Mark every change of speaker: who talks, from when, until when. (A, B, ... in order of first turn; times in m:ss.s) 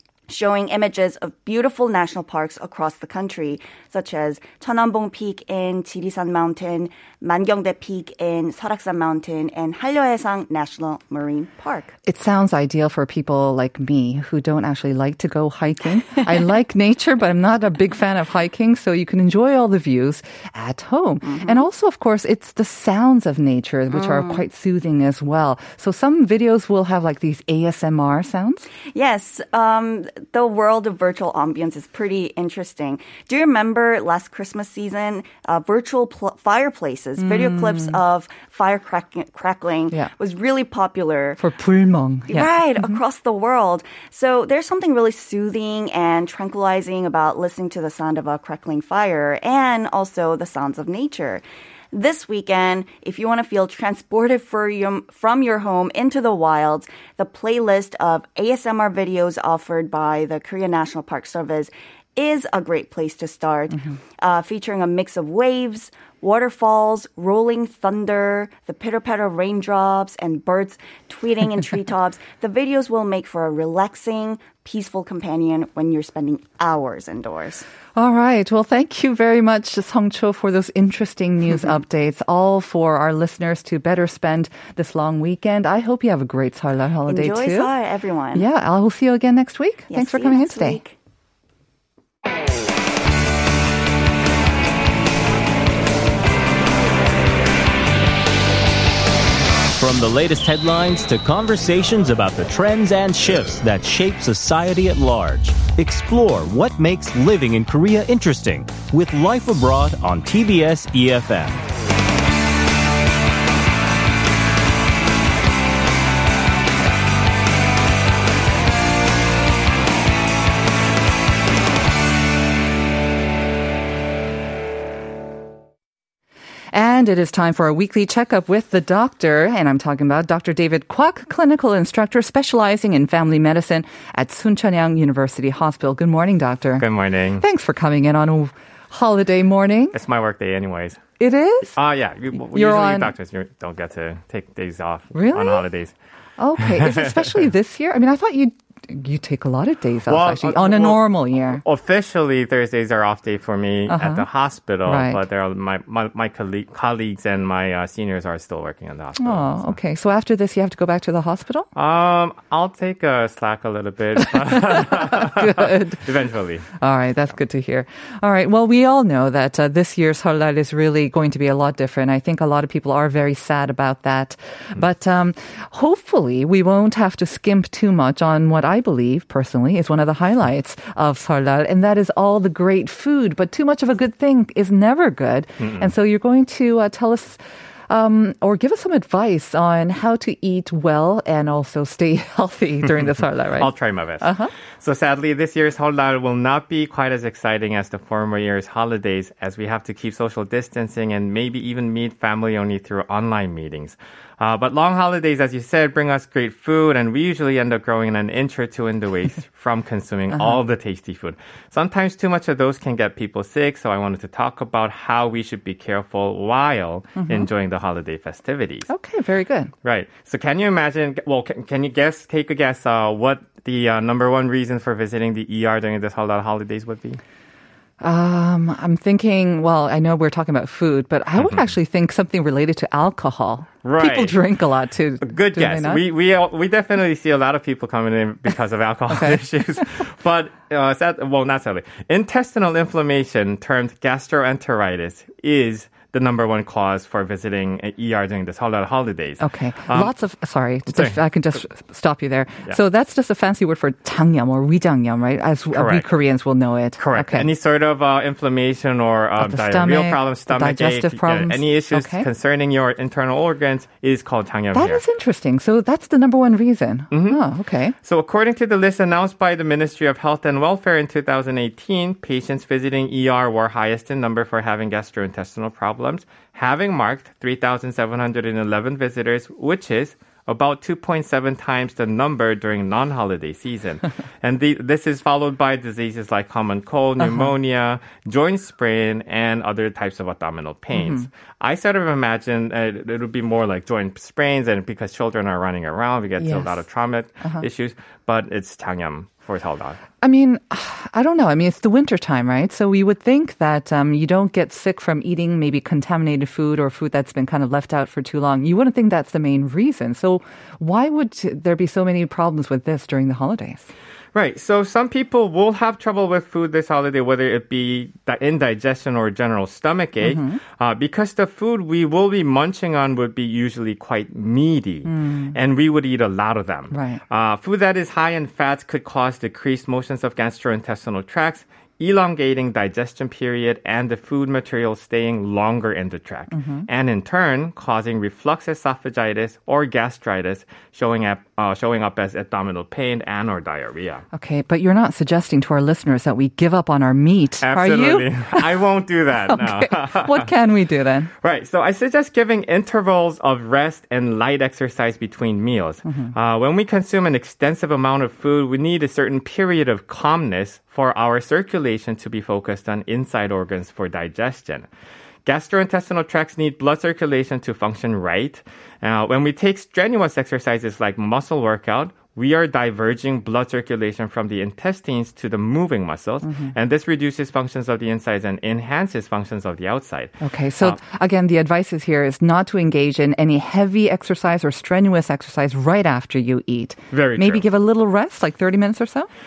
0:00.3-0:11.9 A
0:12.0-0:28.6 B
0:21.2-0:21.6 A
0:23.9-0:24.4 A
0:28.9-0:41.4 A
0:37.2-0:38.0 B
0:41.4-0:43.0 B
0:42.3-1:17.6 A
1:18.0-1:27.7 B
1:27.1-1:28.4 A
1:28.3-1:30.8 B
1:29.9-1:30.9 A
1:39.7-1:51.6 C
2:06.7-2:16.8 B
2:16.8-2:17.4 D
2:17.4-2:20.0 B
2:19.9-2:21.0 D
2:21.2-2:21.8 B
2:21.8-2:25.9 D
2:22.5-2:23.1 B
2:25.1-2:25.6 B
2:26.4-2:31.6 B
2:26.6-2:27.4 D
2:30.1-2:39.8 D
2:33.9-2:34.2 B
2:34.8-2:35.2 B
2:39.2-2:41.7 B
2:41.7-2:46.6 D
2:44.4-2:46.1 B
2:46.8-3:14.5 B
3:05.6-3:05.9 D
3:13.6-3:38.9 D
3:37.2-3:37.5 B
3:38.9-3:39.7 B
3:39.8-3:47.2 D
3:48.0-3:56.0 B
3:53.8-3:54.4 D
3:55.2-4:10.1 D
3:59.1-3:59.4 B
4:09.4-4:17.5 B
4:10.9-4:11.2 D
4:15.7-4:16.1 D
4:17.0-4:25.0 D
4:19.4-4:22.2 B
4:24.7-4:28.0 B
4:27.1-4:27.4 D
4:28.0-5:00.0 D
4:47.2-4:47.5 B
4:50.9-4:51.3 B
4:56.4-4:56.8 B
5:00.2-5:13.9 B
5:14.3-5:44.2 D
5:20.2-5:20.6 B
5:25.1-5:25.5 B
5:26.9-5:27.2 B
5:36.5-5:36.8 B
5:44.3-5:48.7 B
5:47.6-5:50.5 D
5:49.5-5:51.3 B
5:51.4-6:04.9 D
5:56.0-5:56.3 B
6:05.4-6:21.0 D
6:16.4-6:16.7 B
6:20.4-6:29.3 B
6:27.1-6:27.6 D